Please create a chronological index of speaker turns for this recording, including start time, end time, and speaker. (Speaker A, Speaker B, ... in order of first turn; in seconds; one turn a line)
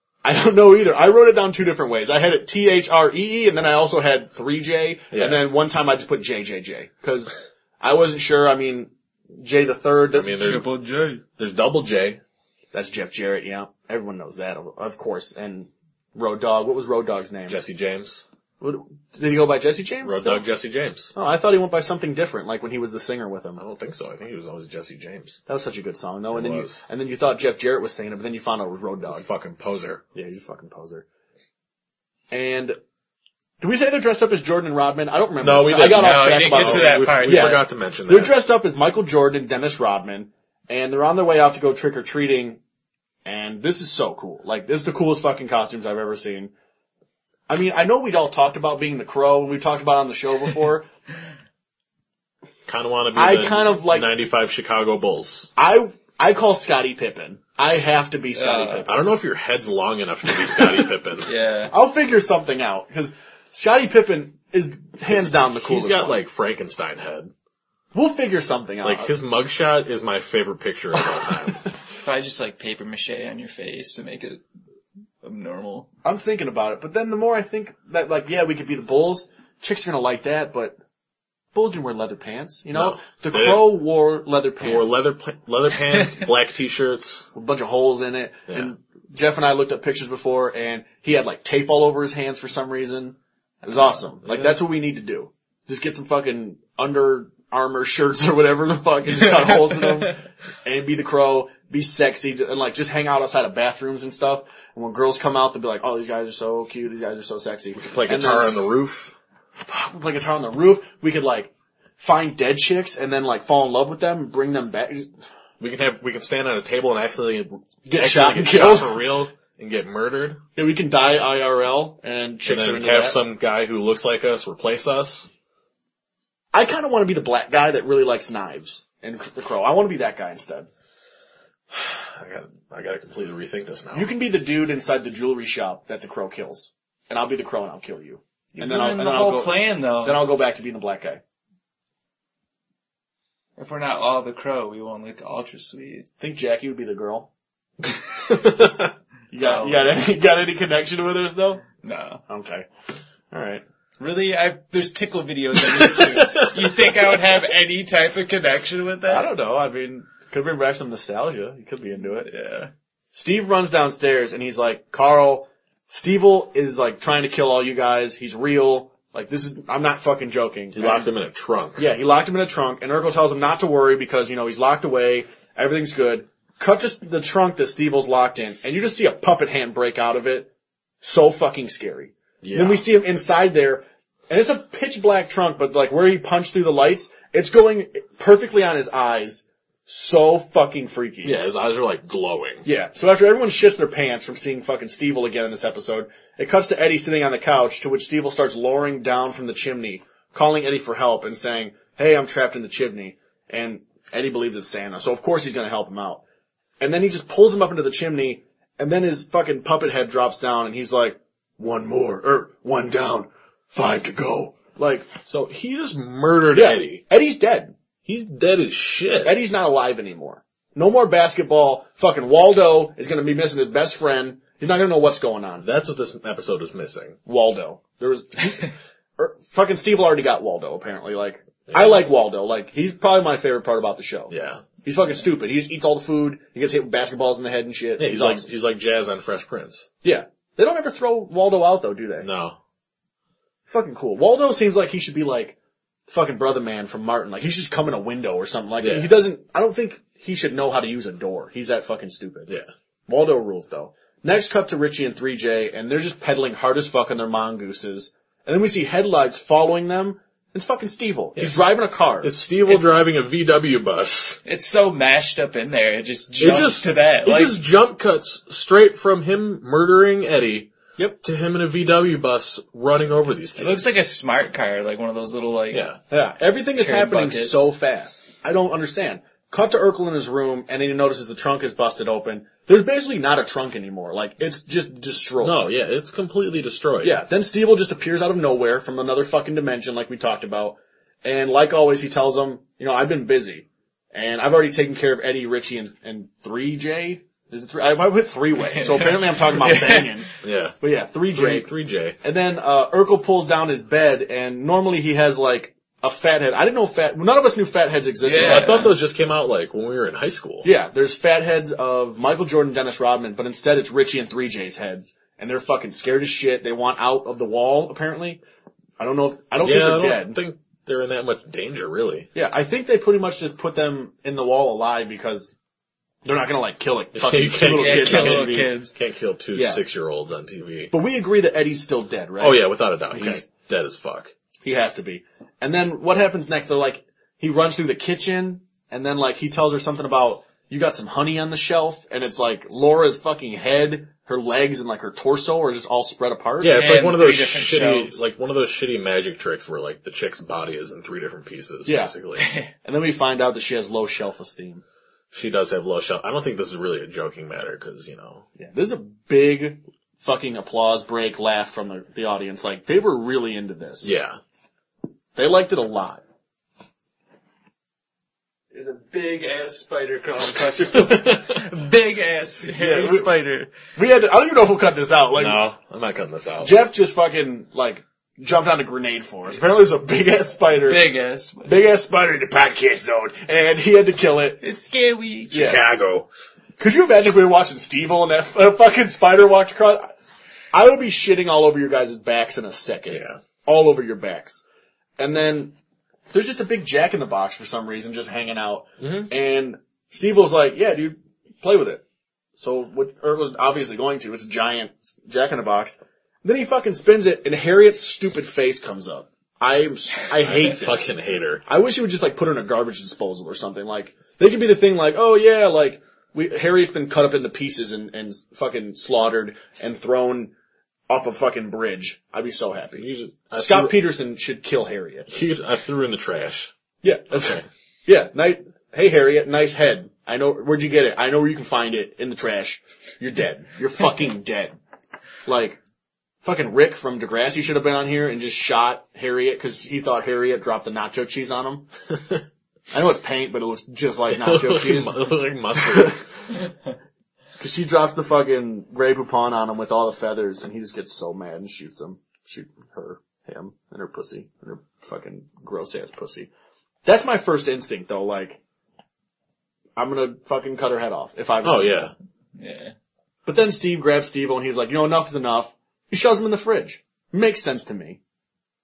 Speaker A: 0.2-10.6
Speaker B: 5.1-5.4
Speaker B: 10.1-10.7
Speaker C: 10.4-11.2
Speaker B: 11.4-12.2
Speaker A: 12.7-17.6
Speaker B: 17.5-18.2
Speaker A: 18.6-20.4
Speaker B: 20.0-21.1
Speaker A: 21.1-23.6
Speaker B: 23.6-25.4
Speaker A: 25.5-29.2
Speaker B: 26.3-26.8
Speaker B: 29.1-30.0
Speaker A: 30.1-31.0
Speaker A: 32.3-32.8
Speaker A: 33.6-42.6
Speaker B: 35.4-38.4
Speaker C: 35.8-37.6
Speaker A: 43.2-46.5
Speaker A: 47.5-50.9
Speaker B: 52.7-55.5
Speaker A: 53.1-54.1
Speaker A: 55.6-59.0
Speaker C: 58.3-58.9
Speaker B: 58.9-61.3
Speaker C: 61.2-61.7
Speaker A: 61.7-66.2
Speaker B: 65.1-67.3
Speaker A: 67.9-69.1
Speaker B: 68.8-71.6
Speaker C: 72.0-74.4
Speaker C: 75.2-75.9
Speaker A: 76.0-80.8
Speaker A: 81.5-85.0
Speaker B: 82.7-83.8
Speaker B: 84.6-87.3
Speaker A: 87.3-108.7
Speaker B: 94.2-94.6
Speaker C: 99.4-100.0
Speaker B: 107.7-109.1
Speaker A: 109.6-115.1
Speaker B: 115.6-120.4
Speaker A: 117.8-119.0
Speaker A: 120.5-123.2
Speaker B: 122.4-125.3
Speaker A: 126.5-130.7
Speaker B: 131.7-134.1
Speaker A: 133.9-141.2
Speaker C: 138.5-140.2
Speaker C: 143.6-146.1
Speaker A: 146.2-147.3
Speaker B: 148.3-148.9
Speaker A: 149.3-151.6
Speaker C: 149.4-149.9
Speaker C: 151.8-152.2
Speaker A: 152.3-152.7
Speaker A: 153.3-153.6
Speaker C: 154.0-159.3
Speaker B: 155.8-156.9
Speaker A: 159.1-162.3
Speaker C: 162.2-162.7
Speaker A: 163.1-171.1
Speaker B: 170.7-171.8
Speaker A: 171.8-180.5
Speaker A: 181.0-191.4
Speaker B: 182.4-182.9
Speaker B: 191.2-192.7
Speaker A: 192.6-206.2
Speaker A: 206.8-215.1
Speaker B: 215.3-217.0
Speaker A: 216.5-217.7
Speaker B: 218.0-219.4
Speaker A: 219.2-225.7
Speaker B: 225.6-227.2
Speaker A: 227.2-238.5
Speaker B: 231.7-232.0
Speaker B: 234.3-234.6
Speaker B: 238.0-239.9
Speaker A: 240.0-242.3
Speaker B: 242.2-242.6
Speaker A: 243.7-245.6
Speaker A: 246.1-252.5
Speaker B: 248.8-249.2
Speaker A: 253.1-262.3
Speaker B: 261.4-264.4
Speaker C: 264.4-267.6
Speaker B: 266.4-274.0
Speaker C: 273.6-275.9
Speaker B: 275.7-276.0
Speaker A: 276.1-285.6
Speaker C: 276.8-277.7
Speaker B: 285.4-287.2
Speaker A: 287.0-300.3
Speaker C: 298.7-300.2
Speaker B: 300.4-300.8
Speaker A: 300.8-301.7
Speaker B: 301.3-302.2
Speaker A: 302.2-308.9
Speaker C: 308.2-308.9
Speaker B: 308.3-310.7
Speaker A: 310.6-318.4
Speaker A: 319.0-320.4
Speaker B: 319.6-322.3
Speaker A: 322.3-325.5
Speaker A: 326.2-328.7
Speaker B: 327.1-330.9
Speaker C: 327.6-328.9
Speaker A: 329.5-329.8
Speaker A: 330.9-333.4
Speaker B: 332.4-334.3
Speaker A: 334.6-346.8
Speaker B: 346.6-352.5
Speaker C: 346.6-348.3
Speaker A: 351.8-352.1
Speaker C: 352.4-352.7
Speaker A: 352.8-354.8
Speaker B: 355.3-358.4
Speaker A: 358.6-364.1
Speaker B: 364.0-364.4
Speaker A: 365.4-366.2
Speaker C: 368.7-373.7
Speaker B: 371.1-371.4
Speaker A: 372.7-373.3
Speaker A: 373.9-375.6
Speaker B: 375.3-376.8
Speaker A: 376.6-381.1
Speaker C: 380.8-381.8
Speaker A: 381.6-384.6
Speaker C: 384.6-385.7
Speaker B: 385.5-386.3
Speaker A: 385.5-385.8
Speaker A: 386.8-390.1
Speaker A: 390.7-394.6
Speaker B: 393.1-393.4
Speaker A: 395.2-395.7
Speaker A: 396.3-402.0
Speaker B: 399.0-399.3
Speaker A: 402.6-411.1
Speaker B: 410.4-411.6
Speaker A: 411.6-420.5
Speaker A: 421.1-425.3
Speaker B: 423.0-424.0
Speaker B: 425.3-426.7
Speaker A: 427.0-434.8
Speaker B: 427.3-427.6
Speaker A: 435.4-435.8
Speaker A: 436.4-441.9
Speaker B: 442.2-442.4
Speaker A: 442.9-446.1
Speaker B: 444.3-446.2
Speaker A: 447.6-456.5
Speaker A: 457.0-458.6
Speaker A: 459.9-462.1
Speaker B: 461.6-462.1
Speaker C: 462.6-462.9
Speaker A: 463.4-468.2